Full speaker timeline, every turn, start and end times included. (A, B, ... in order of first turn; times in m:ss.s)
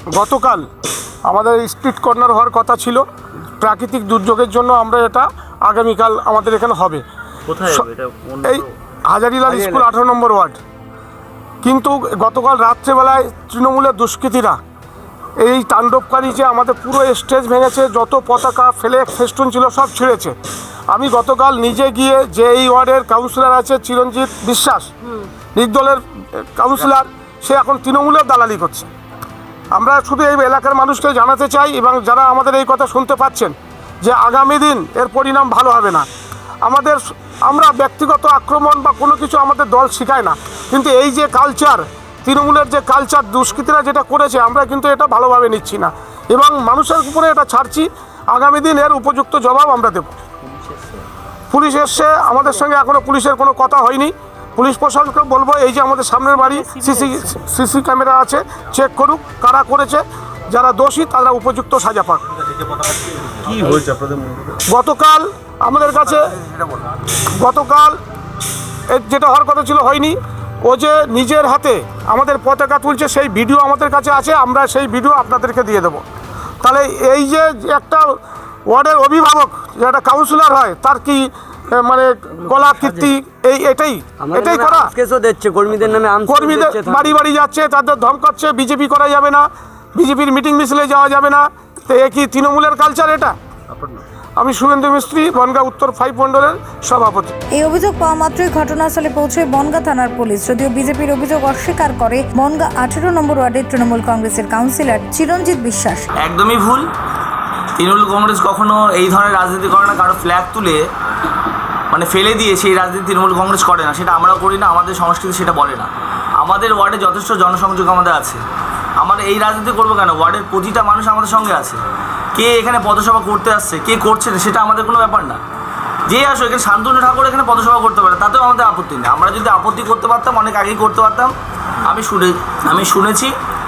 0:00.1-0:00.6 A
0:01.3-0:03.0 A
0:03.6-0:07.0 A
0:07.5-0:08.5 B
0:07.6-0:07.9 A
0:08.4-0:10.6 A
0:09.4-0:09.9 C
0:11.6-0:14.6 A
0:15.4-0:20.4 A
0:20.9-0:24.9 A
0:25.6-0:28.9 A
0:29.8-0:36.1 A
0:36.6-0:50.2 A
0:50.5-0:51.0 B
0:51.5-1:02.2 A
1:03.5-1:04.3 C
1:03.8-1:04.5 B
1:04.7-1:06.3 A
1:07.4-1:08.0 A
1:08.9-1:16.0 A
1:16.6-1:24.9 A
1:22.4-1:23.1 C
1:24.2-1:27.2 C
1:26.3-1:33.4 A
1:33.7-1:34.0 B
1:34.4-1:37.3 A
1:37.6-1:46.1 D
1:46.2-1:46.9 E
1:47.8-1:50.8 E
1:51.9-1:58.4 E
1:59.0-2:01.8 E
2:02.3-2:05.4 E
2:06.1-2:13.3 E